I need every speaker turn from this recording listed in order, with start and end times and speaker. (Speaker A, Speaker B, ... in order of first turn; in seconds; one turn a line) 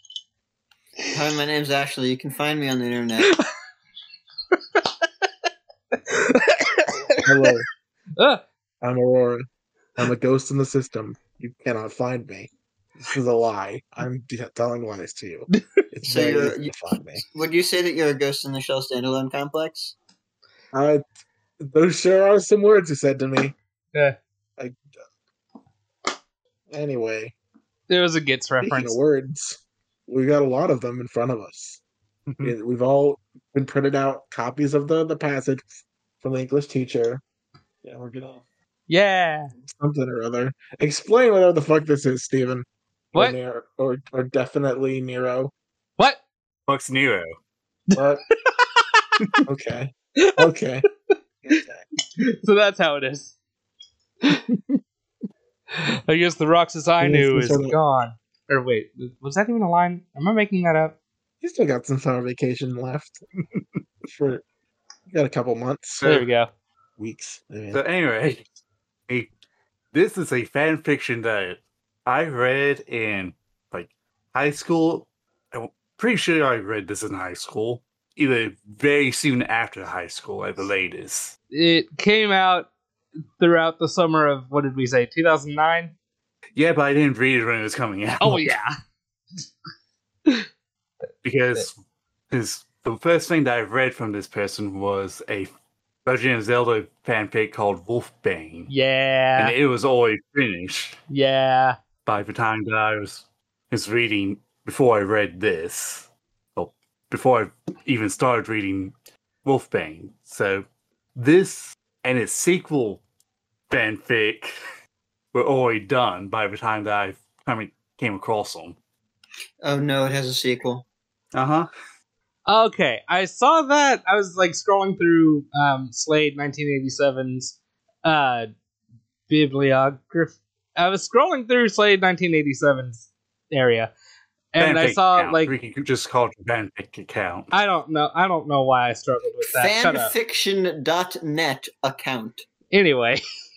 Speaker A: 1.1-3.3
Speaker B: 6.1-7.5
Speaker C: 7.2-7.7
Speaker C: 8.8-17.2
Speaker A: 16.1-16.7
Speaker A: 17.3-19.9
Speaker C: 20.7-21.0
Speaker C: 21.6-23.6
Speaker C: 26.7-27.4
Speaker B: 27.9-29.0
Speaker C: 28.6-31.8
Speaker D: 32.3-32.5
Speaker C: 32.4-35.7
Speaker C: 36.2-37.2
Speaker C: 37.8-38.4
Speaker B: 38.9-39.5
Speaker C: 39.7-45.5
Speaker D: 46.7-47.4
Speaker C: 48.0-48.2
Speaker C: 49.5-50.9
Speaker B: 50.2-50.5
Speaker C: 51.4-51.8
Speaker B: 52.2-53.3
Speaker C: 54.5-54.8
Speaker B: 55.8-61.0
Speaker C: 57.0-57.8
Speaker C: 61.4-63.2
Speaker C: 64.0-64.4
Speaker C: 65.1-66.0
Speaker D: 66.0-66.3
Speaker B: 66.0-66.5
Speaker C: 67.0-67.8
Speaker D: 67.7-68.4
Speaker D: 69.9-81.3
Speaker B: 81.5-82.7
Speaker B: 83.4-85.9
Speaker D: 86.6-88.5
Speaker B: 88.2-88.8
Speaker D: 91.2-91.8
Speaker D: 92.3-95.5
Speaker D: 96.0-98.7
Speaker B: 98.7-99.5
Speaker D: 99.4-101.0
Speaker B: 101.1-101.8
Speaker D: 102.0-108.9
Speaker D: 109.5-113.0
Speaker D: 113.7-114.6
Speaker D: 115.3-118.8
Speaker A: 119.6-120.8
Speaker D: 121.3-121.7
Speaker B: 122.5-128.5
Speaker B: 129.3-133.9
Speaker B: 134.5-135.5
Speaker D: 134.6-137.5
Speaker B: 137.5-140.1
Speaker A: 139.6-142.4
Speaker B: 142.7-143.2